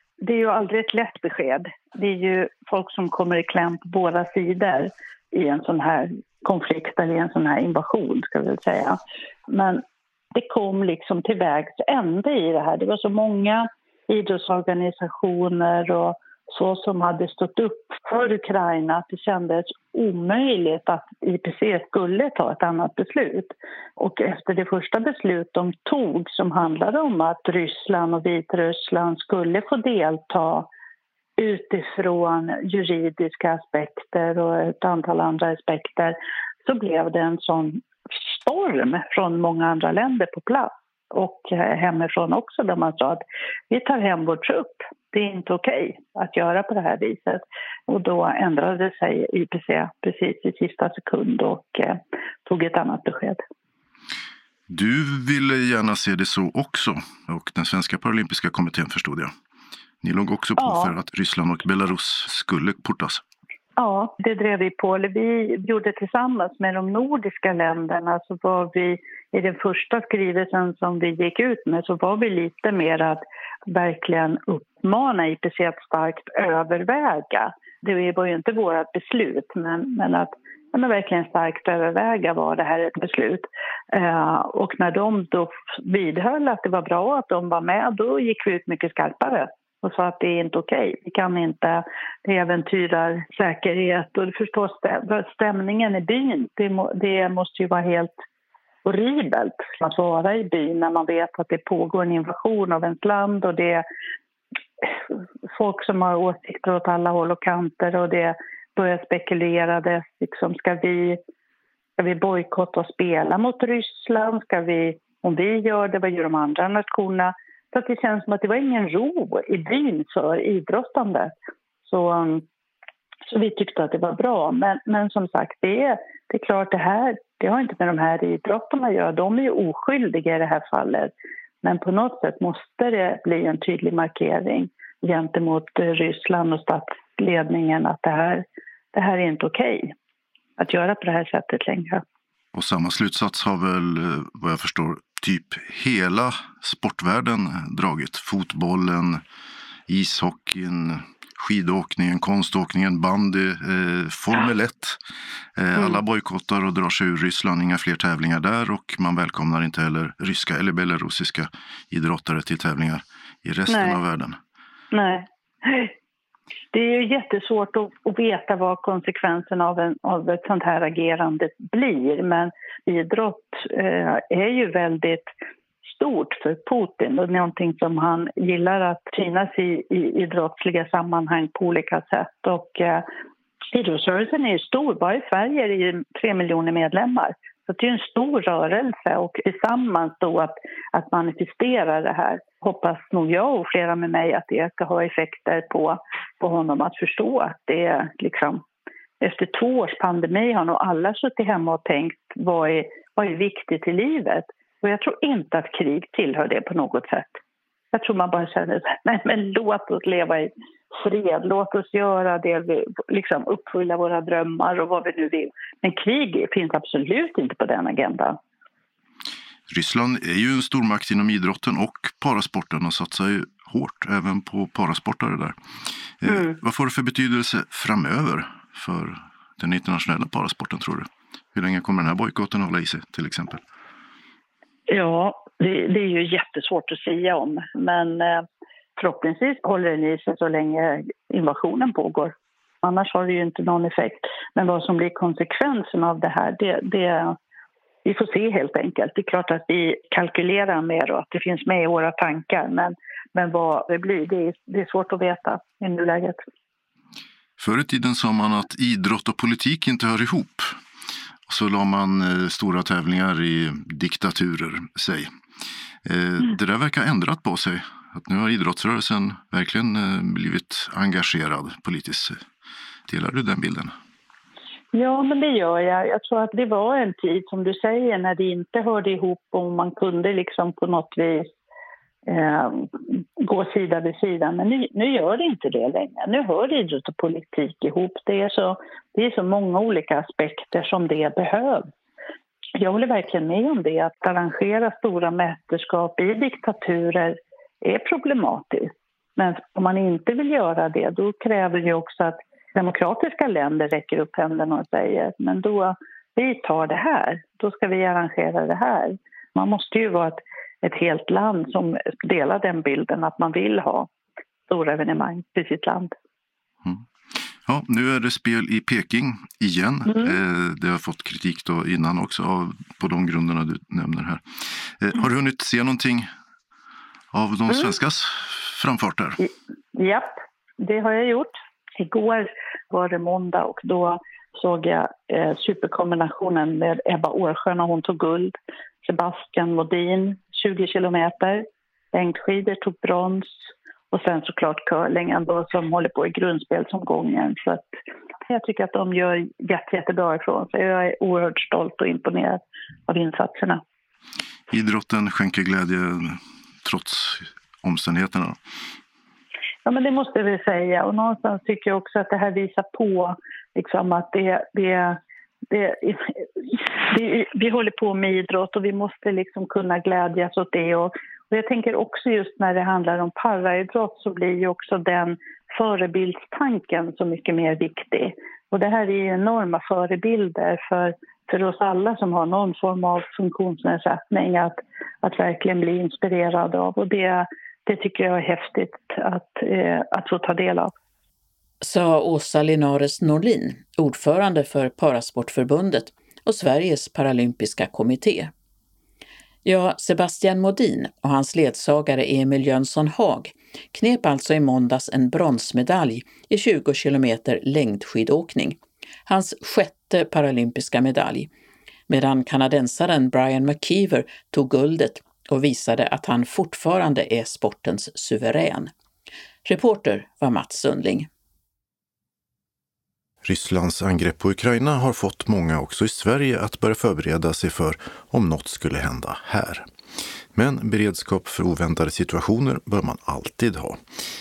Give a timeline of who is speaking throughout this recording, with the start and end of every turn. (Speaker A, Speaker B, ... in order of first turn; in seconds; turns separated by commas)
Speaker A: 0.2-9.0, Speaker A: 9.5-9.8, Speaker A: 10.3-30.7, Speaker A: 31.4-53.4, Speaker B: 54.7-59.3, Speaker B: 60.0-63.2, Speaker A: 60.6-60.9, Speaker A: 63.8-98.2, Speaker A: 98.8-103.8, Speaker A: 105.6-111.2, Speaker A: 112.0-121.3, Speaker A: 121.9-122.5, Speaker A: 123.3-139.9, Speaker A: 140.6-142.0, Speaker B: 142.5-149.2, Speaker B: 149.9-155.0, Speaker B: 155.6-164.4, Speaker A: 163.7-164.0, Speaker A: 164.9-165.9, Speaker A: 166.7-175.3, Speaker A: 175.8-183.1, Speaker A: 183.7-198.6, Speaker A: 199.2-207.4, Speaker A: 207.9-218.4, Speaker B: 219.7-225.6, Speaker B: 226.2-233.6, Speaker A: 226.3-226.6, Speaker A: 234.9-238.4, Speaker A: 239.0-247.4, Speaker A: 248.1-256.4, Speaker B: 257.6-260.8, Speaker B: 261.5-265.3, Speaker B: 266.1-272.4, Speaker B: 273.1-273.9, Speaker A: 274.9-281.5, Speaker A: 282.3-291.9, Speaker A: 292.8-314.1, Speaker A: 314.7-316.1, Speaker B: 316.8-326.3, Speaker A: 320.1-320.3, Speaker B: 327.3-329.4, Speaker A: 329.4-347.9, Speaker A: 348.5-353.8, Speaker B: 354.7-358.6, Speaker A: 359.9-365.2, Speaker A: 365.7-390.9, Speaker C: 391.8-398.5, Speaker C: 399.6-411.5, Speaker C: 412.1-418.9, Speaker C: 419.7-421.3, Speaker B: 423.4-429.9, Speaker B: 430.5-434.0